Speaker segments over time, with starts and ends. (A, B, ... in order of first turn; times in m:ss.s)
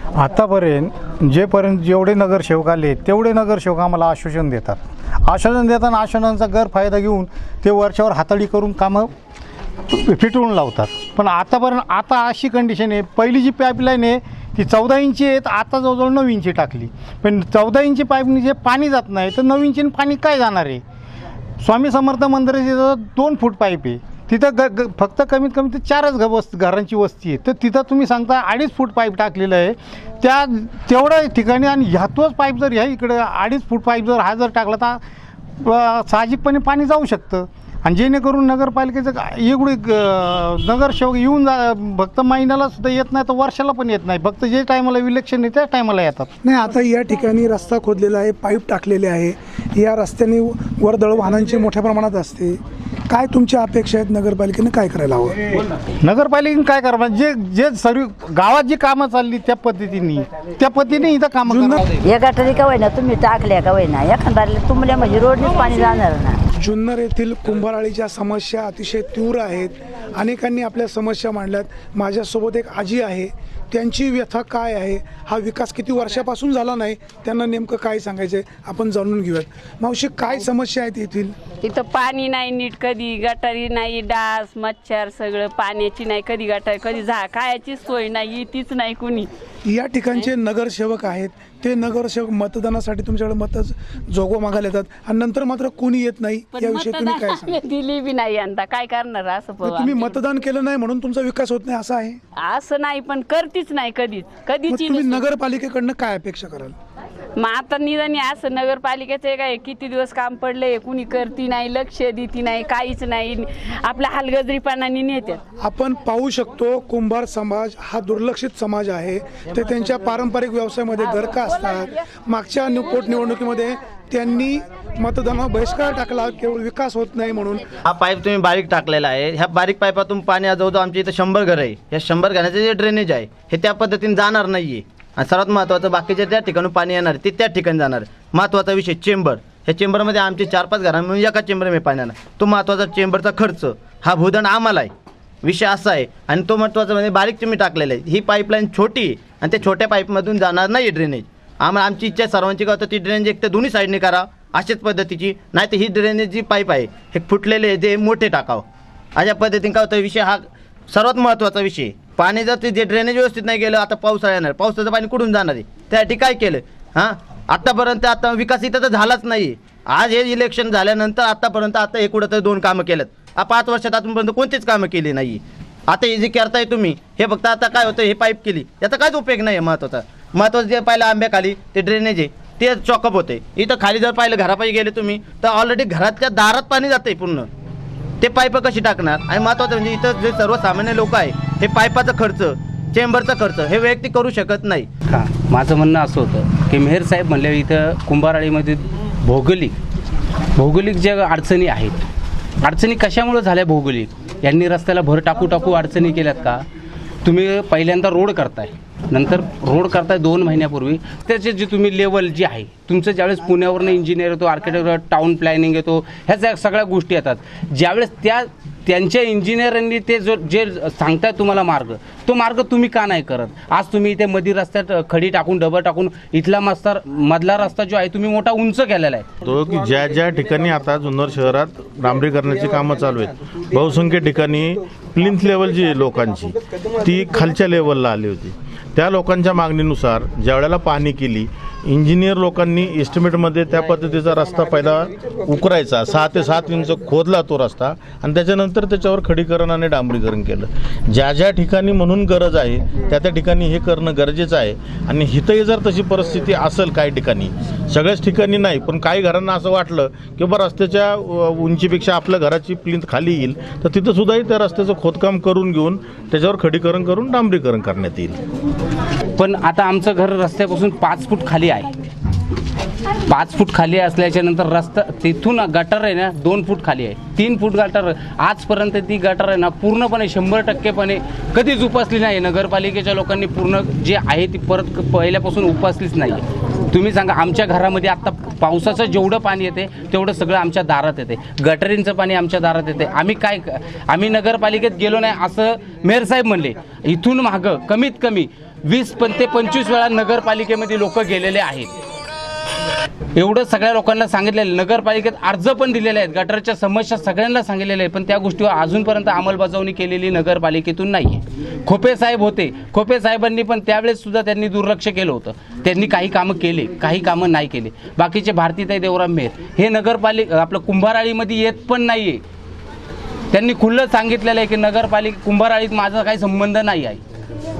0:00.1-0:09.1 A
0:09.9-0:20.8 A
0:21.6-0:35.0 A
0:35.6-0:46.3 A
0:46.4-0:55.6 B
0:56.0-1:01.8 A
1:01.4-1:01.8 B
1:02.0-1:06.4 C
1:06.6-1:21.4 B
1:21.6-1:29.3 D
1:29.6-1:37.6 B
1:36.5-1:40.2 D
1:39.6-1:42.2 B
1:42.4-1:45.3 D
1:44.7-1:46.8 B
1:47.4-1:55.4 D
1:55.6-2:07.7 B
2:01.0-2:01.9 D
2:07.8-2:24.9 E
2:25.4-2:38.6 E
2:39.2-3:07.5 E
3:08.2-3:14.9 E
3:15.1-3:19.8 F
3:20.6-3:22.0 F
3:22.6-3:26.6 F
3:27.2-3:49.3 F
3:49.4-4:28.4 G
4:29.4-4:31.9 F
4:33.2-5:02.0 F
5:03.3-5:22.4 F
5:23.5-5:27.2 F